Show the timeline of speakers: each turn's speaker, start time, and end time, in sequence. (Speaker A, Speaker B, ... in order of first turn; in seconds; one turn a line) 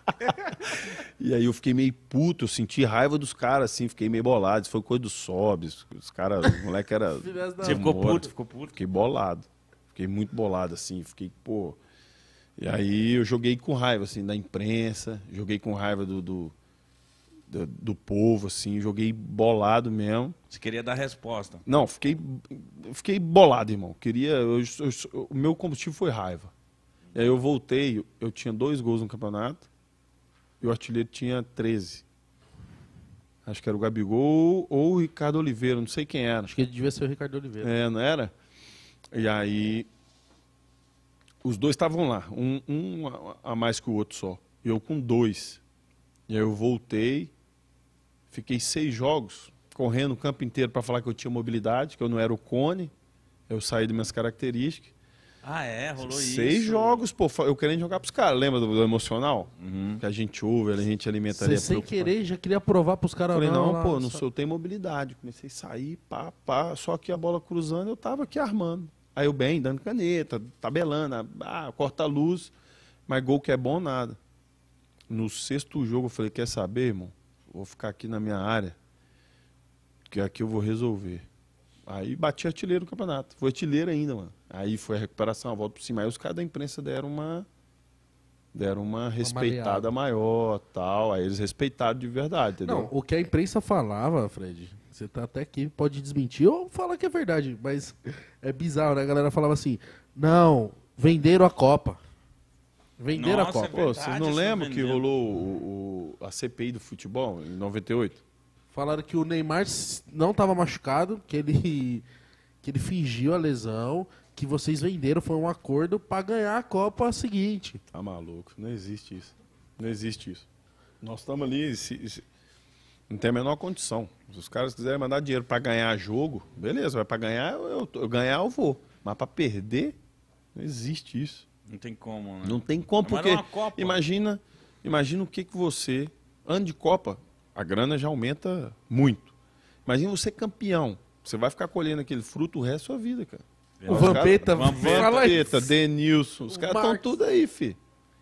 Speaker A: 0.3-11.8
Speaker B: 7.2-8.2
Speaker C: 7.6-8.8
Speaker A: 12.6-16.5
Speaker A: 17.5-20.4
Speaker C: 20.5-21.6
Speaker A: 21.7-26.5
Speaker A: 27.1-29.7
Speaker A: 30.6-32.1
Speaker A: 33.5-36.5
Speaker B: 36.5-37.7
Speaker A: 37.6-38.3
Speaker A: 39.1-39.9
Speaker A: 41.4-45.6
Speaker A: 46.3-47.3
Speaker A: 48.3-52.9
Speaker A: 53.5-54.9
Speaker C: 55.4-57.1
Speaker A: 56.0-62.1
Speaker C: 59.6-60.0
Speaker B: 61.3-64.2
Speaker A: 63.3-72.5
Speaker A: 73.1-74.2
Speaker A: 75.1-78.8
Speaker A: 80.1-81.3
Speaker A: 81.9-87.5
Speaker A: 88.5-92.9
Speaker B: 89.2-89.9
Speaker B: 92.6-102.0
Speaker B: 103.0-103.7
Speaker C: 103.1-105.0
Speaker A: 103.7-108.2
Speaker B: 108.7-112.1
Speaker B: 112.6-117.8
Speaker A: 117.9-120.5
Speaker A: 121.0-122.2
Speaker A: 123.1-130.0
Speaker A: 130.6-131.5
Speaker C: 131.7-134.0
Speaker A: 132.4-139.3
Speaker A: 139.9-147.8
Speaker C: 143.8-145.3
Speaker B: 143.9-145.7
Speaker B: 146.5-147.2